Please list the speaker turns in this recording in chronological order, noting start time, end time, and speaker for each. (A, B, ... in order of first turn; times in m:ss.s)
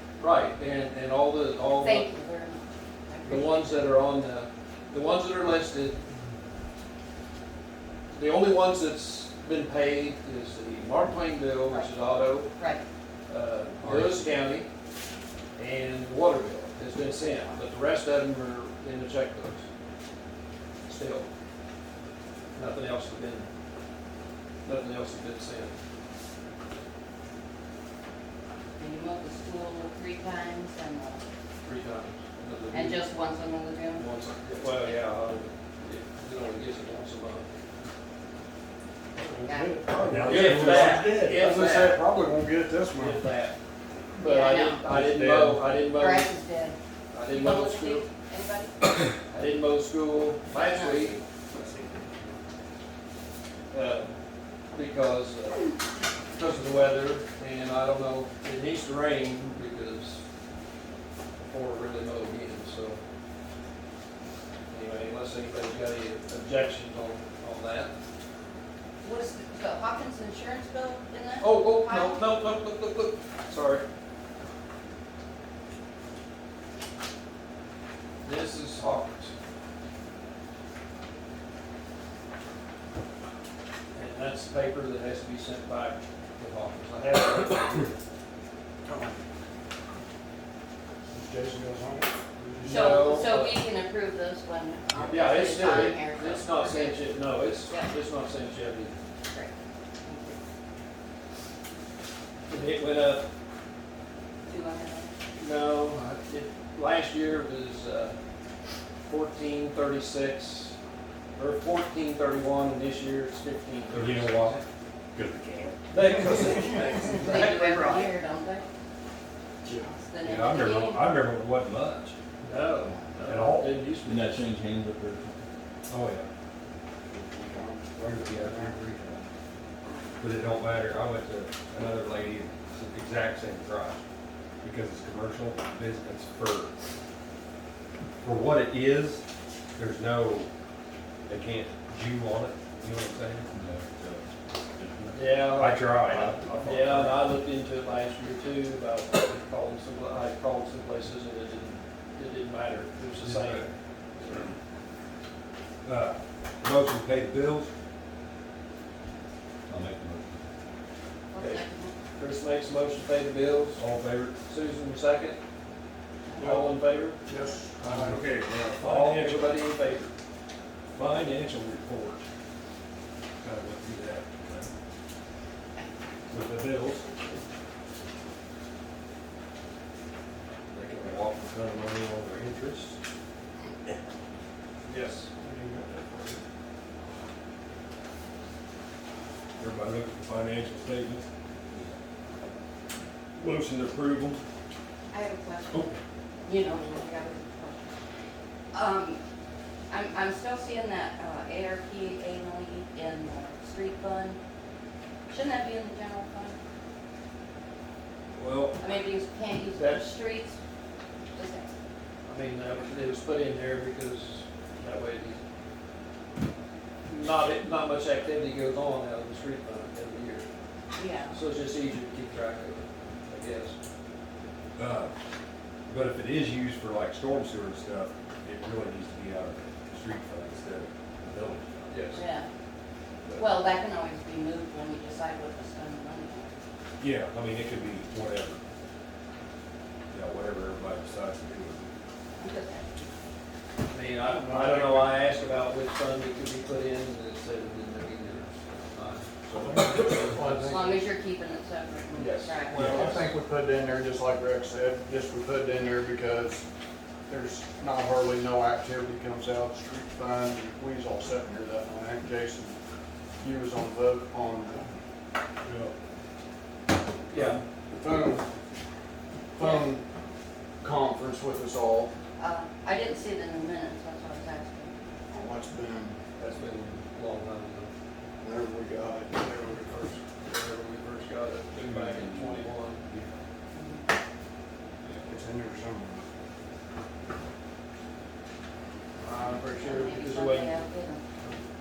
0:00.2-0:02.2 A
0:01.8-0:03.8 B
0:03.2-0:06.0 A
0:08.1-0:12.5 A
0:11.7-0:12.8 B
0:13.3-0:14.7 A
0:13.8-0:14.2 C
0:15.6-0:19.6 A
0:20.8-0:21.3 A
0:22.5-0:23.5 A
0:24.6-0:25.7 A
0:28.8-0:31.2 B
0:31.6-0:33.0 A
0:32.7-0:34.0 B
0:34.0-0:37.5 A
0:39.2-0:43.2 D
0:39.4-0:39.8 B
0:40.0-0:41.3 E
0:40.0-0:41.4 C
0:40.2-0:42.1 A
0:42.9-0:43.5 A
0:44.1-0:46.3 A
0:44.2-0:44.9 B
0:44.9-0:45.6 D
0:45.9-0:49.0 B
0:47.1-0:48.1 A
0:49.3-0:51.2 A
0:50.5-0:51.2 B
0:53.7-0:54.1 A
0:54.7-0:55.8 A
0:56.3-1:00.2 A
1:01.4-1:03.0 A
1:04.7-1:07.9 A
1:09.0-1:12.2 B
1:11.4-1:13.8 A
1:18.2-1:19.3 A
1:23.9-1:28.0 A
1:28.8-1:29.2 D
1:31.1-1:33.1 D
1:32.6-1:33.6 A
1:32.6-1:37.1 B
1:35.0-1:38.9 A
1:37.6-1:37.9 B
1:39.3-1:40.4 B
1:42.5-1:43.3 A
1:44.4-1:45.2 B
1:45.4-1:48.2 A
1:49.0-1:50.8 A
1:51.4-1:54.6 A
1:53.9-1:54.6 E
1:55.1-1:55.8 E
1:55.9-1:58.1 A
1:56.8-1:58.6 B
1:59.6-2:00.0 D
2:00.0-2:01.1 B
2:00.2-2:02.1 E
2:02.4-2:04.5 A
2:03.2-2:03.8 E
2:04.0-2:05.4 C
2:05.9-2:06.3 E
2:07.1-2:08.7 D
2:07.9-2:09.3 E
2:10.2-2:14.0 E
2:14.6-2:16.7 E
2:18.2-2:19.2 E
2:19.8-2:20.5 E
2:21.3-2:24.2 E
2:23.5-2:23.9 C
2:24.8-2:25.1 C
2:24.8-2:27.3 E
2:25.1-2:34.6 A
2:33.2-2:33.7 E
2:35.8-2:37.7 E
2:39.7-2:40.2 C
2:41.3-2:41.9 B
2:41.3-2:41.6 A
2:42.2-2:43.8 A
2:43.8-2:44.4 E
2:44.4-2:45.4 A
2:46.4-2:47.2 A
2:46.4-2:46.7 D
2:47.2-2:48.2 D
2:47.8-2:49.6 E
2:48.7-2:50.1 A
2:50.9-2:52.2 E
2:53.4-2:54.7 E
2:56.3-2:57.4 E
3:00.7-3:03.0 E
3:04.8-3:05.3 A
3:05.4-3:06.4 D
3:09.6-3:11.3 E
3:13.3-3:14.4 E
3:15.1-3:15.9 B
3:15.7-3:16.0 E
3:16.4-3:17.9 B
3:18.7-3:19.2 B
3:19.9-3:24.4 B
3:25.3-3:26.6 B
3:28.3-3:28.8 E
3:28.8-3:30.6 B
3:29.7-3:30.1 A
3:31.3-3:31.7 B
3:32.2-3:35.4 A
3:37.1-3:40.5 A
3:41.0-3:41.4 B
3:41.3-3:43.8 A
3:44.8-3:45.1 E
3:45.9-3:52.0 E
3:51.9-3:52.2 A
3:52.1-3:52.5 B
3:53.4-3:56.6 B
3:57.0-3:58.6 E
4:00.1-4:02.0 E
4:02.4-4:02.9 B
4:03.9-4:10.7 A
4:04.2-4:05.2 D
4:09.5-4:10.3 E
4:09.5-4:11.0 D
4:10.6-4:13.2 B
4:12.2-4:13.2 A
4:12.7-4:16.6 D
4:12.7-4:13.3 E
4:17.3-4:22.8 D
4:23.4-4:24.9 D
4:25.6-4:25.9 D
4:27.3-4:27.6 A
4:27.3-4:28.5 D
4:29.5-4:30.0 D
4:30.8-4:32.1 D
4:32.4-4:34.9 B
4:35.3-4:36.2 D
4:36.4-4:37.9 A
4:38.4-4:39.9 D
4:39.4-4:43.0 A
4:41.8-4:43.4 E
4:43.7-4:44.1 B
4:45.0-4:45.3 E
4:45.2-4:46.2 D
4:49.2-4:51.6 A
4:49.8-4:51.2 B